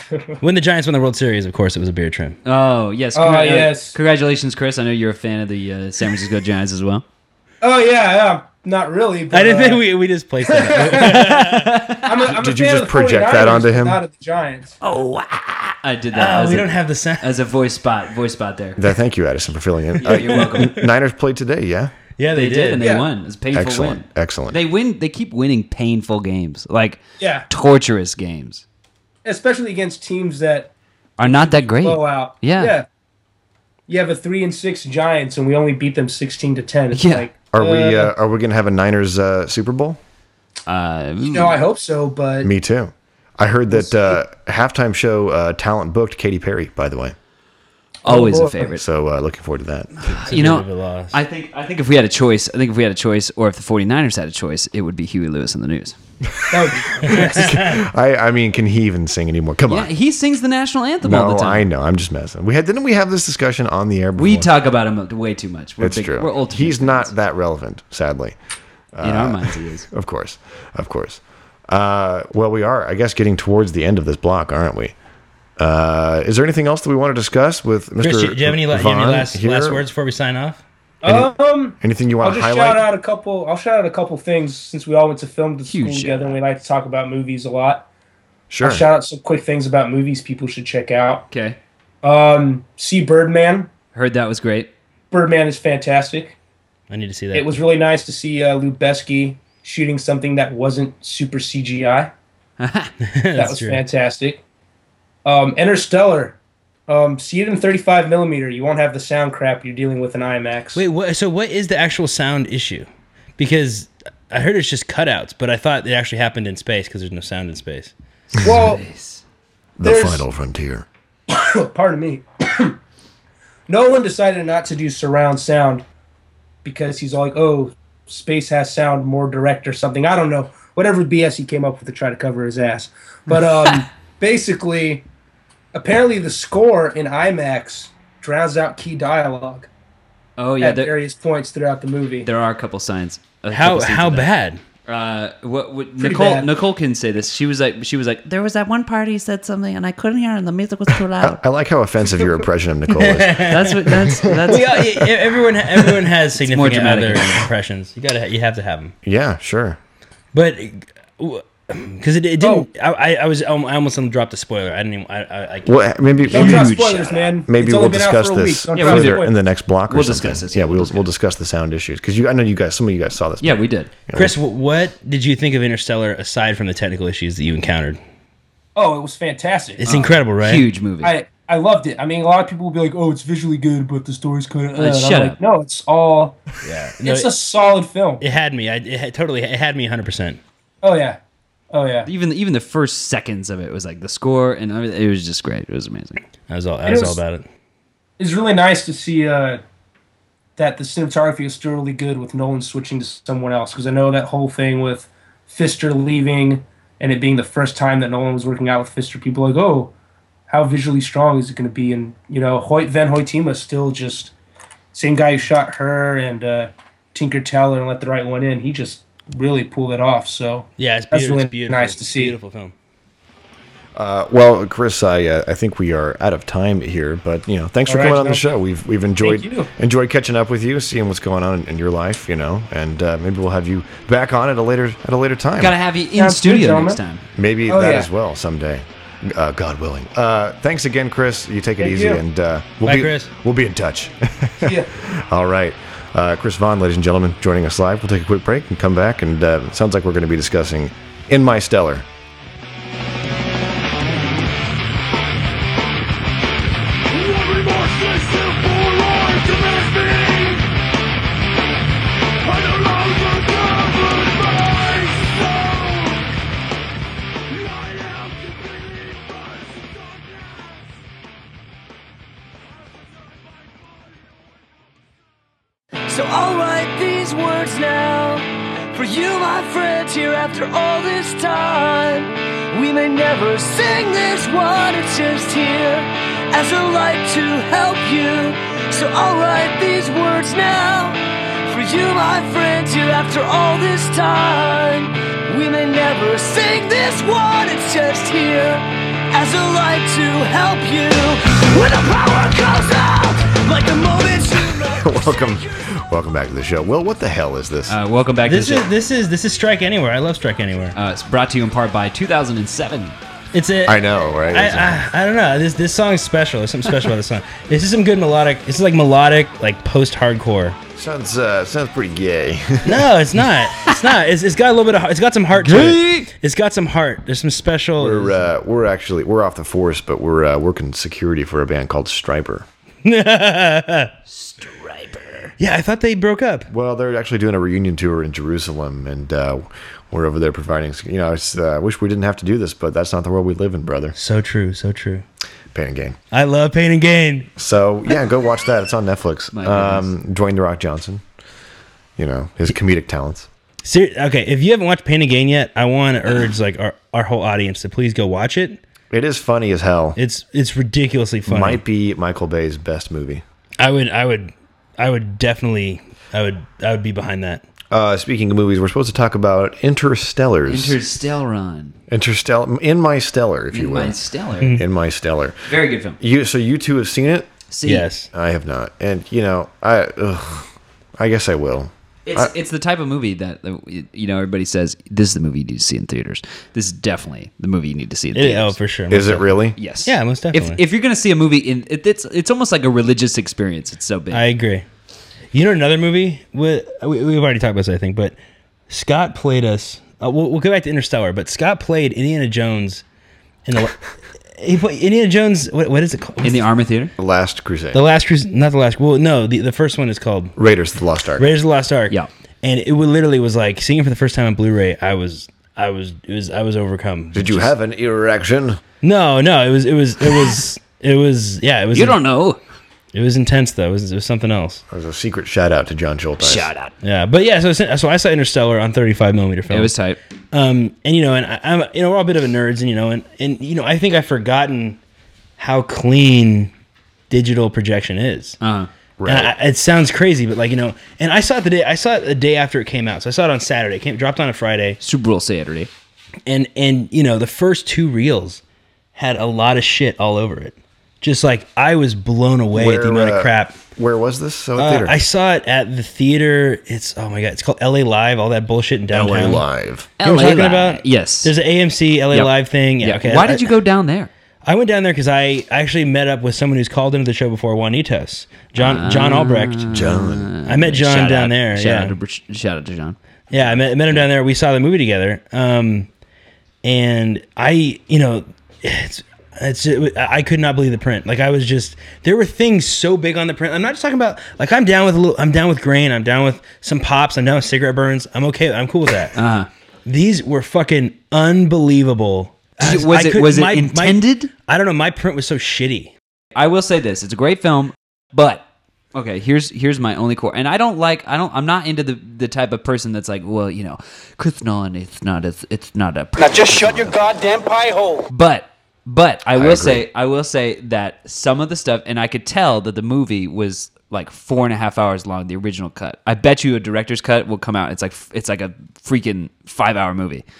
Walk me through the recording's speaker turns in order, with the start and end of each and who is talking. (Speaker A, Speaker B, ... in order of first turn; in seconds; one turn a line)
Speaker A: 0.1-0.4
Speaker B: 0.4-2.4
Speaker C: 2.4-7.0
Speaker A: 3.1-3.9
Speaker A: 7.6-9.8
Speaker B: 9.3-11.7
Speaker A: 10.4-11.2
Speaker C: 10.8-12.1
Speaker A: 12.0-14.8
Speaker D: 12.3-14.0
Speaker C: 14.8-18.8
Speaker B: 16.1-17.3
Speaker D: 18.8-21.9
Speaker C: 20.0-20.8
Speaker B: 22.2-22.8
Speaker C: 22.3-28.6
Speaker D: 23.5-24.6
Speaker A: 27.2-27.5
Speaker A: 29.2-32.9
Speaker C: 31.2-32.7
Speaker A: 33.9-38.1
Speaker C: 36.9-37.3
Speaker D: 37.5-40.0
Speaker C: 40.7-41.6
Speaker A: 41.3-42.5
Speaker D: 42.4-47.1
Speaker A: 43.7-44.2
Speaker C: 48.0-48.8
Speaker A: 48.0-48.7
Speaker D: 48.7-49.9
Speaker C: 50.0-56.0
Speaker B: 50.1-51.2
Speaker D: 56.4-59.9
Speaker A: 56.5-57.5
Speaker B: 57.0-57.8
Speaker C: 59.7-61.7
Speaker D: 61.0-64.5
Speaker C: 64.2-67.1
Speaker D: 65.8-68.4
Speaker D: 68.9-74.9
Speaker C: 69.0-69.9
Speaker D: 75.6-79.8
Speaker B: 78.0-80.6
Speaker A: 81.0-87.8
Speaker D: 81.0-82.9
Speaker C: 85.7-86.3
Speaker D: 88.5-88.8
Speaker A: 88.6-91.2
Speaker C: 91.3-91.6
Speaker A: 92.0-93.7
Speaker C: 93.9-94.7
Speaker A: 95.1-96.3
Speaker B: 96.9-97.5
Speaker A: 97.3-102.1
Speaker C: 102.6-102.9
Speaker B: 103.0-103.8
Speaker A: 103.3-104.4
Speaker A: 105.2-106.3
Speaker A: 106.9-110.8
Speaker B: 110.7-112.9
Speaker B: 113.4-117.9
Speaker C: 118.3-119.2
Speaker A: 118.4-118.8
Speaker D: 119.8-120.8
Speaker A: 119.8-120.2
Speaker A: 121.3-122.8
Speaker A: 123.7-125.8
Speaker A: 126.6-135.0
Speaker A: 135.7-139.7
Speaker C: 140.4-140.9
Speaker A: 140.6-142.3
Speaker C: 142.2-144.3
Speaker B: 143.5-144.6
Speaker C: 144.8-151.4
Speaker A: 146.0-146.5
Speaker D: 151.1-154.9
Speaker B: 152.9-158.9
Speaker C: 153.4-154.7
Speaker C: 156.3-157.5
Speaker D: 159.0-159.8
Speaker B: 160.3-165.7
Speaker A: 162.4-162.7
Speaker D: 165.7-166.8
Speaker C: 166.3-167.3
Speaker A: 166.3-169.3
Speaker D: 167.5-174.4
Speaker C: 168.7-169.3
Speaker C: 169.9-171.1
Speaker C: 173.4-173.9
Speaker B: 174.1-178.0
Speaker A: 178.8-180.1
Speaker B: 179.8-180.7
Speaker C: 180.4-181.1
Speaker A: 181.0-186.4
Speaker C: 184.8-185.4
Speaker B: 186.6-187.3
Speaker A: 187.0-188.2
Speaker B: 188.2-190.4
Speaker A: 190.8-191.2
Speaker A: 191.7-192.1
Speaker C: 192.0-196.2
Speaker B: 196.5-197.4
Speaker A: 196.8-197.2
Speaker A: 198.2-199.6
Speaker A: 200.6-209.9
Speaker A: 210.5-214.3
Speaker A: 214.9-222.3
Speaker B: 220.8-222.7
Speaker D: 223.9-235.8
Speaker A: 227.8-228.4
Speaker A: 229.2-229.7
Speaker C: 235.6-237.2
Speaker A: 236.1-237.0
Speaker D: 237.3-252.1
Speaker A: 237.7-238.1
Speaker A: 241.8-242.2
Speaker B: 242.8-243.3
Speaker A: 244.6-244.9
Speaker E: 276.1-305.6
Speaker D: 305.0-308.0
Speaker C: 307.9-308.9
Speaker B: 308.4-310.9
Speaker C: 310.9-313.1
Speaker B: 313.5-320.8
Speaker D: 313.8-315.0
Speaker D: 320.9-323.1
Speaker B: 322.8-328.4
Speaker C: 325.5-326.3
Speaker D: 328.0-332.7
Speaker B: 333.0-334.1
Speaker C: 334.3-335.5
Speaker B: 335.6-336.7
Speaker D: 336.7-344.1
Speaker B: 344.1-345.2
Speaker D: 345.7-346.2
Speaker B: 346.3-347.5
Speaker D: 347.6-351.2
Speaker C: 349.5-350.1
Speaker D: 352.2-353.5
Speaker B: 353.8-358.8
Speaker D: 359.1-360.2
Speaker B: 360.1-361.8
Speaker D: 361.4-363.4
Speaker B: 363.8-367.6
Speaker D: 367.9-371.0
Speaker C: 370.7-372.0
Speaker D: 372.1-375.7
Speaker C: 373.7-374.8
Speaker C: 375.7-376.2
Speaker D: 376.2-377.5
Speaker C: 377.7-378.1
Speaker B: 377.8-378.3
Speaker D: 378.3-382.5
Speaker C: 382.2-388.8
Speaker B: 388.3-389.5
Speaker D: 389.1-389.8
Speaker C: 389.8-394.4
Speaker B: 390.0-390.8
Speaker B: 394.3-394.8
Speaker B: 395.5-398.3
Speaker B: 398.9-403.0
Speaker B: 403.6-406.6
Speaker C: 406.4-407.1
Speaker D: 407.2-408.0
Speaker B: 407.9-410.6
Speaker D: 410.6-411.5
Speaker B: 411.4-417.7
Speaker D: 417.3-418.8
Speaker B: 419.0-422.2
Speaker C: 421.9-422.6
Speaker B: 423.1-424.8
Speaker D: 424.9-426.7
Speaker C: 426.4-426.9
Speaker B: 427.0-429.9
Speaker C: 429.7-430.2
Speaker B: 430.5-435.0
Speaker B: 435.6-436.7
Speaker B: 437.3-438.6
Speaker C: 438.6-438.9
Speaker D: 439.2-439.5
Speaker B: 439.2-445.0
Speaker C: 445.0-445.9
Speaker B: 446.5-448.6
Speaker B: 449.1-453.8
Speaker D: 452.7-455.2
Speaker B: 454.8-459.6
Speaker D: 459.1-460.1
Speaker C: 460.2-461.5
Speaker B: 460.2-463.7
Speaker C: 462.3-464.3
Speaker B: 464.6-469.9
Speaker C: 468.8-474.3
Speaker D: 469.9-470.5
Speaker B: 470.6-472.1
Speaker B: 473.5-476.1
Speaker B: 476.8-489.3
Speaker C: 489.3-489.7
Speaker B: 490.1-496.1
Speaker C: 492.8-494.5
Speaker C: 496.5-507.2
Speaker C: 508.3-520.4
Speaker D: 509.5-510.1